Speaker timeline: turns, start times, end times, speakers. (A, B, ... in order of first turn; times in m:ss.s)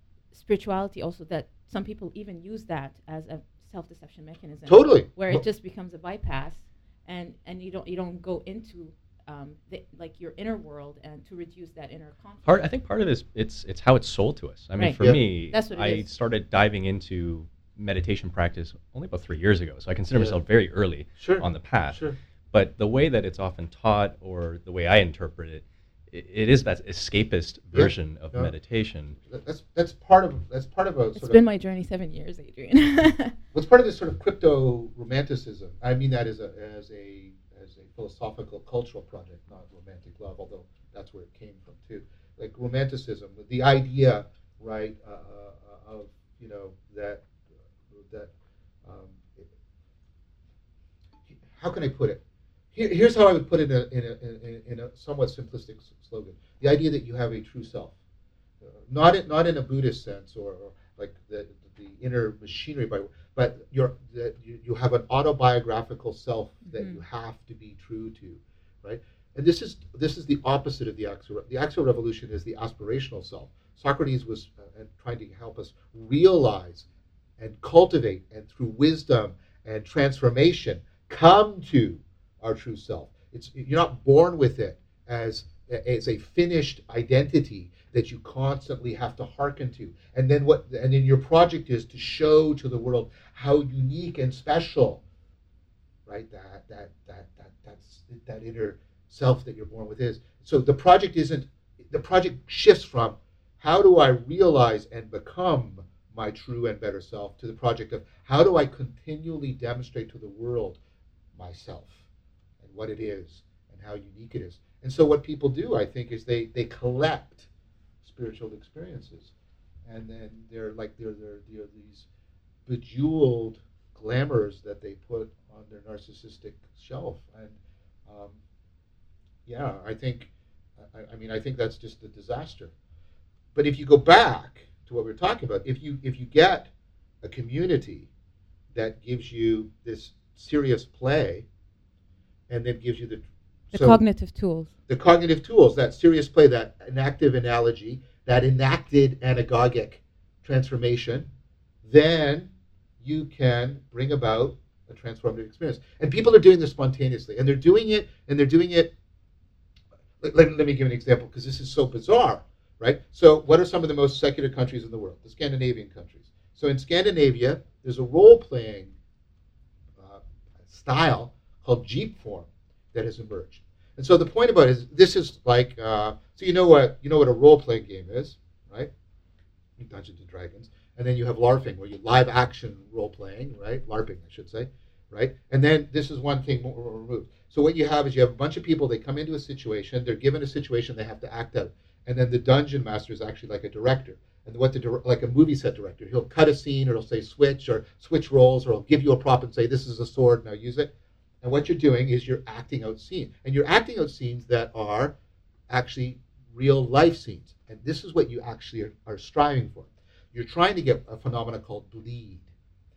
0:00.3-0:12.7 A
0:04.6-0:05.4 B
0:12.4-0:22.0 C
0:15.5-0:16.1 A
0:21.2-0:22.2 B
0:22.5-0:29.2 C
0:27.7-0:28.5 B
0:29.3-0:31.4 B
0:31.2-0:33.3 A
0:33.5-0:47.2 B
0:47.9-0:48.3 B
0:48.8-0:49.5 B
0:51.5-0:52.2 B
0:52.7-0:57.9 B
0:58.9-1:16.8 B
1:06.7-1:07.0 A
1:17.4-1:35.0 B
1:36.1-1:50.8 B
1:51.4-1:52.0 B
1:52.6-1:57.5 B
1:58.0-1:59.3 B
1:59.8-2:02.0 B
2:02.6-2:08.4 B
2:09.4-2:10.3 B
2:10.8-2:12.7 B
2:13.5-2:16.7 B
2:17.2-2:18.1 B
2:18.7-2:21.4 B
2:22.5-2:24.0 B
2:23.7-2:24.7 A
2:24.9-2:31.3 B
2:31.8-2:32.5 B
2:33.0-2:38.9 B
2:40.2-2:48.9 B
2:50.0-2:58.9 B
2:59.8-3:20.9 B
3:21.4-3:25.1 B
3:25.7-3:32.5 B